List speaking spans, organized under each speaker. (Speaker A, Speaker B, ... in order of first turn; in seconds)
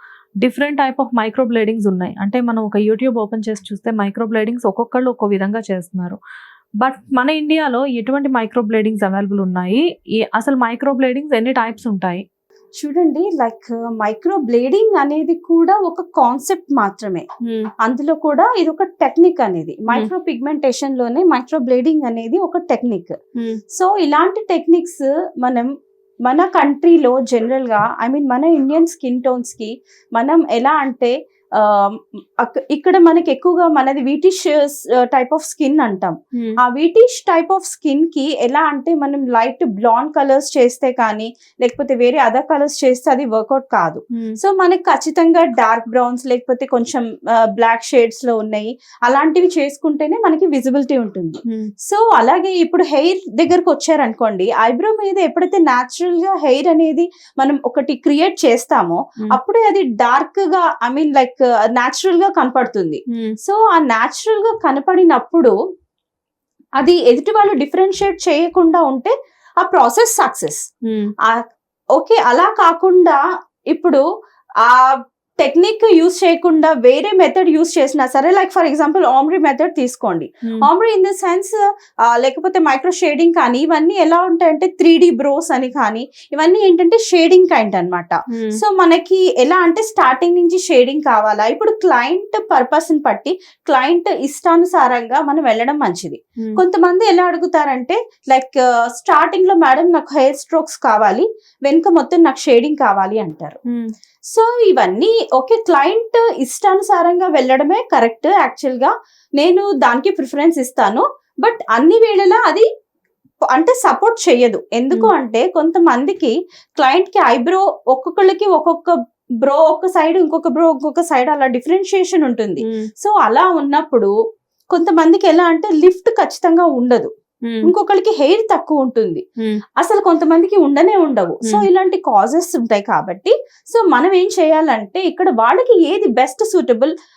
Speaker A: 0.4-6.2, 6.8-12.2, 17.4-17.7, 70.9-71.1, 88.3-88.6
Speaker B: 12.8-17.2, 17.8-23.1, 23.7-25.7, 26.2-65.5, 66.8-70.6, 72.0-73.2, 73.7-74.0, 74.7-81.5, 82.1-103.6, 104.3-112.7, 113.5-124.1, 124.7-127.1, 127.7-129.2, 129.8-136.9